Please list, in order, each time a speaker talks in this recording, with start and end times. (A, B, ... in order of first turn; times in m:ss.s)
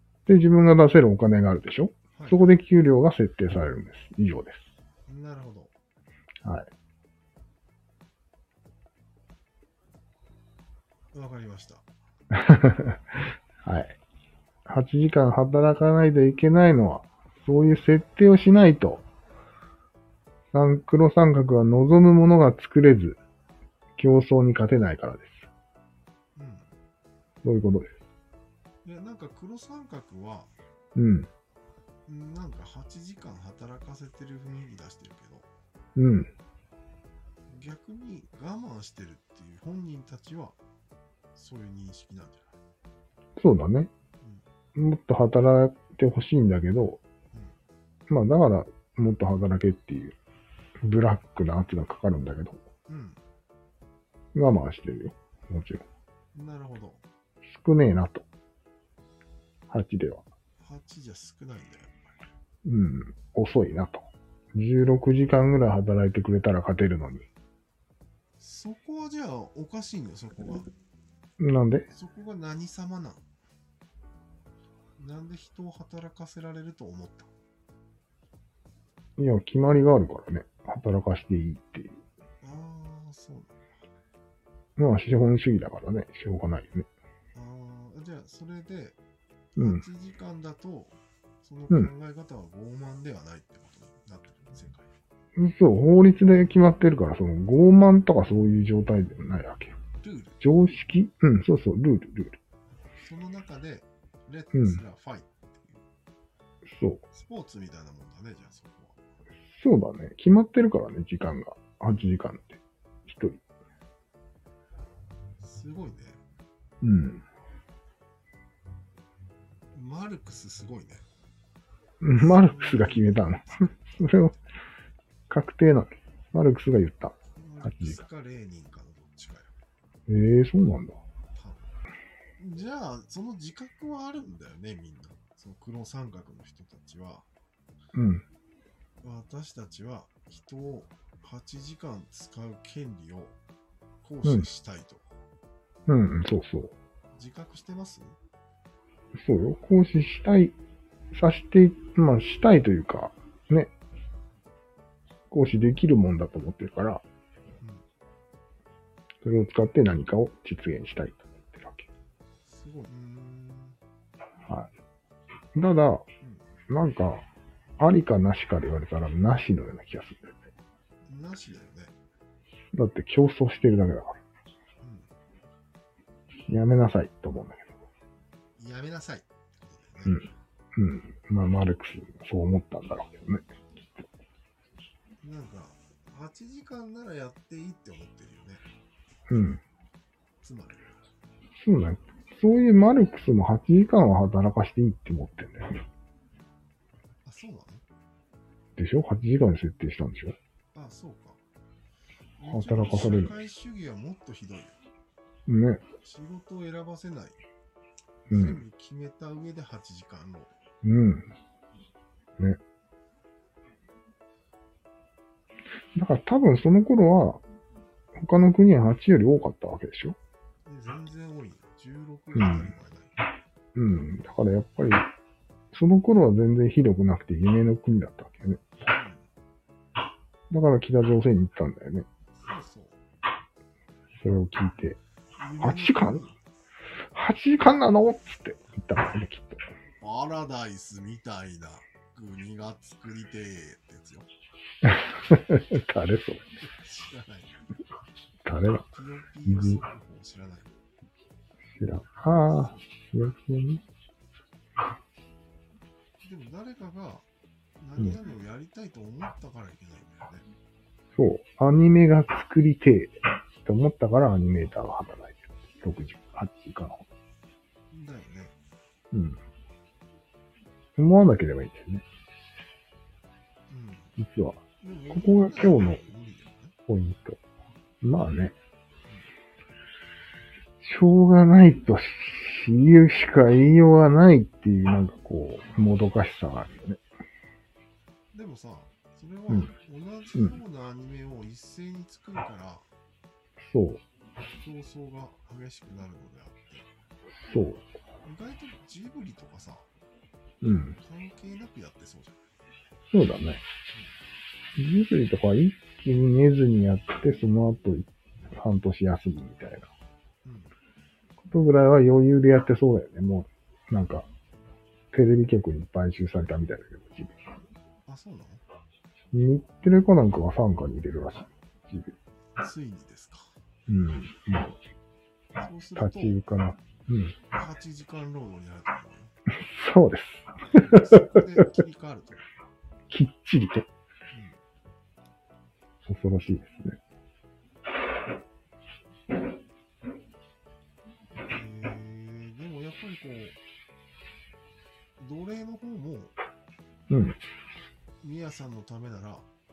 0:00.3-0:04.7 A
0:02.1-0:02.6 B
0:05.1-0:05.7 B
0:06.4-0:06.7 A
0:11.1-0:11.9 B
0:12.3-0:13.0 A
0:13.6-0:14.0 A
0:14.7-0:19.1 A
0:20.5-0:23.2 A
0:24.0-0:25.5 A
0:26.4-0:26.7 B
0:27.4-0:27.9 A
0:28.8-0:30.5 B
0:31.0-0:31.3 A
0:32.1-0:35.5 B
0:36.0-0:36.3 A
0:37.5-0:40.6 B
0:41.4-0:42.5 B
0:43.4-0:43.9 A
0:44.2-0:44.5 B
0:44.8-0:47.0 A
0:48.1-0:50.2 A
0:50.8-0:52.6 A
0:52.9-0:53.2 B
0:54.4-0:55.8 A
0:56.3-0:57.0 B
0:57.4-0:58.2 A
0:59.7-1:00.2 A
1:00.6-1:02.2 B
1:02.6-1:07.3 A
1:08.4-1:10.7 B
1:11.4-1:11.9 A
1:11.9-1:13.2 B
1:15.0-1:17.3 B
1:19.2-1:22.0 A
1:22.4-1:23.6 B
1:24.8-1:26.9 A
1:27.3-1:29.0 B
1:29.6-1:34.9 B
1:29.6-1:29.8 A
1:35.4-1:39.8 A
1:40.0-1:40.4 B
1:40.4-1:42.4 A
1:43.0-1:45.8 B
1:44.5-1:44.8 A
1:46.7-1:47.0 A
1:47.1-1:49.0 B
1:49.5-1:53.4 A
1:55.4-1:56.2 B
1:56.8-1:57.2 A
1:59.7-2:01.1 B
2:02.0-2:04.4 A
2:02.1-2:04.4 B
2:05.3-2:08.0 A
2:07.4-2:09.5 B
2:10.1-2:11.0 A
2:11.4-2:11.7 B
2:12.4-2:17.3 B
2:17.9-2:18.2 A
2:19.0-2:23.4 B
2:24.0-2:25.1 B
2:25.9-2:26.7 A
2:27.1-2:28.2 B
2:29.2-2:30.6 A
2:31.1-2:33.7 A
2:35.3-2:37.0 A
2:39.2-2:41.9 A
2:42.5-2:43.8 B
2:45.6-2:46.0 A
2:46.2-2:46.5 B
2:46.7-2:47.3 A
2:47.8-2:50.4 A
2:51.1-2:52.0 B
2:52.7-2:54.2 A
2:54.8-2:55.1 B
2:56.5-2:57.8 A
2:58.6-3:00.3 B
3:00.0-3:03.5 A
3:05.2-3:08.6 B
3:09.3-3:09.6 A
3:10.4-3:10.8 B
3:11.6-3:15.8 A
3:17.2-3:17.8 B
3:18.8-3:20.4 A
3:20.7-3:21.4 B
3:22.4-3:24.8 B
3:22.4-3:23.3 A
3:25.5-3:25.8 A
3:26.0-3:27.4 B
3:28.3-3:30.5 B
3:28.3-3:28.6 A
3:30.8-3:31.3 A
3:36.0-3:37.4 A
3:38.2-3:40.2 A
3:40.7-3:43.2 B
3:42.3-3:42.7 A
3:43.8-3:45.1 A
3:45.7-3:48.6 A
3:48.8-3:49.3 B
3:50.5-3:52.1 A
3:52.3-3:53.0 B
3:54.2-3:55.0 A
3:55.4-3:56.4 B
3:55.6-3:56.2 A
3:57.1-3:59.6 A
4:00.0-4:04.3 B
4:04.8-4:06.5 A
4:06.6-4:07.5 B
4:08.4-4:08.9 A
4:08.9-4:10.7 B
4:09.5-4:09.8 A
4:11.8-4:13.8 A
4:16.2-4:17.3 B
4:17.8-4:20.4 B
4:21.2-4:27.0 A
4:27.9-4:28.6 B
4:29.1-4:29.4 A
4:31.0-4:32.0 A
4:33.7-4:34.2 B
4:34.2-4:36.0 A
4:34.8-4:36.8 B
4:36.9-4:37.4 A
4:38.0-4:38.6 A
4:40.8-4:47.0 A
4:48.3-4:52.9 B
4:53.6-4:54.0 A
4:54.5-4:56.9 B
4:57.5-4:57.9 A
4:58.2-4:59.9 B
5:00.6-5:01.0 A
5:01.0-5:02.5 B
5:03.1-5:03.6 A
5:04.8-5:09.9 A
5:10.4-5:10.7 B
5:11.4-5:14.3 A
5:15.1-5:17.3 A
5:18.1-5:18.6 B
5:19.3-5:22.1 A
5:22.6-5:23.5 B
5:23.9-5:24.8 A
5:25.6-5:26.4 B
5:26.0-5:27.4 A
5:27.5-5:29.3 B
5:29.5-5:31.4 A
5:30.7-5:32.5 B
5:33.1-5:33.9 A
5:34.3-5:34.6 B
5:36.1-5:37.0 A
5:41.5-5:43.6 B
5:45.2-5:46.4 B
5:47.1-5:47.4 A
5:48.2-5:49.5 B